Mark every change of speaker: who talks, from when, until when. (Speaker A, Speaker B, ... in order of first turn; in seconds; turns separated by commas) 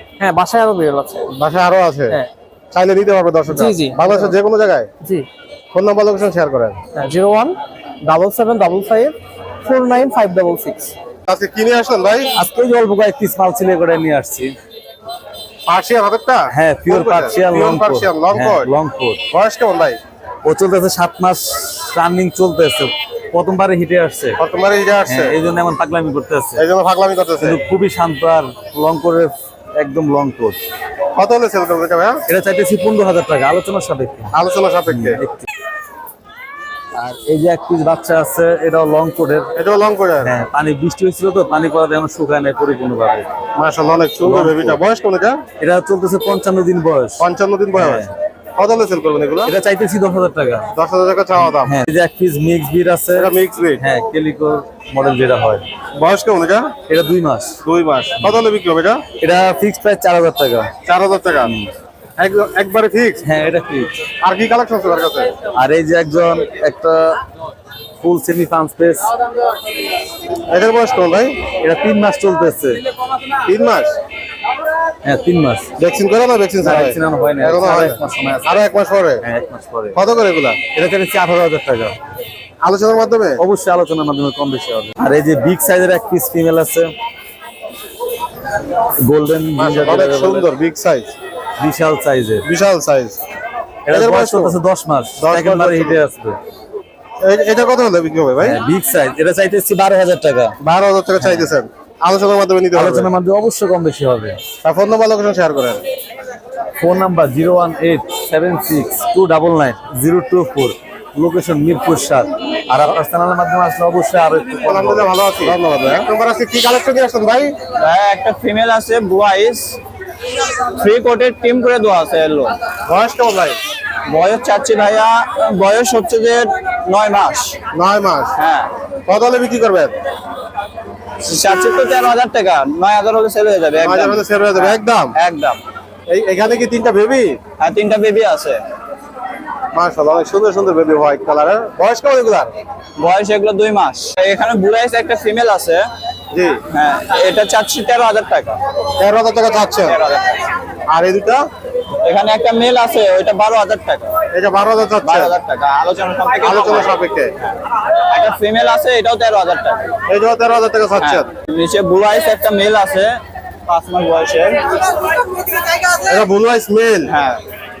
Speaker A: 0.2-1.3, Speaker B: 1.3-2.2, Speaker B: 2.7-4.9, Speaker A: 3.5-4.3, Speaker A: 5.0-5.3, Speaker B: 5.7-6.8, Speaker A: 6.9-10.9, Speaker B: 11.3-12.3, Speaker C: 12.3-14.5, Speaker B: 15.7-18.7, Speaker C: 16.5-19.2, Speaker B: 19.3-20.0, Speaker C: 20.4-24.4, Speaker B: 24.4-25.4, Speaker C: 25.1-26.6, Speaker B: 26.6-27.6, Speaker C: 27.4-30.6, Speaker B: 31.1-32.2, Speaker C: 32.3-34.3, Speaker B: 34.3-35.2, Speaker C: 34.9-35.4, Speaker C: 37.0-39.5, Speaker B: 39.5-40.4, Speaker C: 40.2-43.3, Speaker B: 43.5-45.4, Speaker C: 44.2-44.8, Speaker C: 45.6-47.2, Speaker B: 47.2-49.5, Speaker C: 47.7-48.1, Speaker C: 49.5-50.7, Speaker B: 50.7-51.7, Speaker C: 51.6-55.6, Speaker B: 53.1-53.8, Speaker B: 55.9-56.7, Speaker C: 56.9-57.6, Speaker B: 57.6-59.0, Speaker C: 59.2-60.7, Speaker B: 60.8-61.5, Speaker B: 62.2-63.2, Speaker C: 63.2-63.9, Speaker B: 64.2-65.3, Speaker C: 65.5-67.2, Speaker C: 68.0-69.1, Speaker B: 70.5-71.4, Speaker C: 71.6-72.8, Speaker B: 73.5-73.9, Speaker C: 75.0-75.7, Speaker B: 75.8-79.2, Speaker C: 76.6-78.6, Speaker C: 79.2-80.0, Speaker B: 79.9-80.6, Speaker C: 80.7-82.0, Speaker B: 82.6-83.4, Speaker C: 83.4-86.9, Speaker C: 89.0-90.5, Speaker B: 89.6-91.1, Speaker C: 91.6-92.4, Speaker B: 92.4-93.2, Speaker C: 93.9-96.4, Speaker B: 93.9-94.6, Speaker B: 95.2-96.0, Speaker B: 97.2-98.6, Speaker C: 98.4-100.5, Speaker B: 100.6-103.1, Speaker C: 101.2-101.5, Speaker C: 102.7-104.4, Speaker B: 104.6-105.8, Speaker C: 106.8-115.1, Speaker B: 114.6-117.6, Speaker D: 117.8-119.8, Speaker D: 120.8-122.5, Speaker B: 122.9-123.6, Speaker D: 124.1-127.6, Speaker B: 127.7-128.3, Speaker D: 128.4-128.7, Speaker B: 129.1-129.9, Speaker D: 131.2-135.6, Speaker B: 133.8-135.1, Speaker B: 136.1-137.4, Speaker D: 137.6-138.6, Speaker B: 139.7-142.5, Speaker D: 143.0-145.8, Speaker B: 146.3-146.6, Speaker D: 146.7-148.6, Speaker B: 149.0-149.9, Speaker D: 149.8-150.4, Speaker B: 150.9-151.4, Speaker D: 152.0-154.1, Speaker B: 154.3-155.3, Speaker D: 155.0-157.5, Speaker B: 156.4-157.3, Speaker D: 158.1-159.9, Speaker B: 160.1-161.3, Speaker D: 161.0-164.6, Speaker B: 166.0-167.1, Speaker D: 167.1-167.4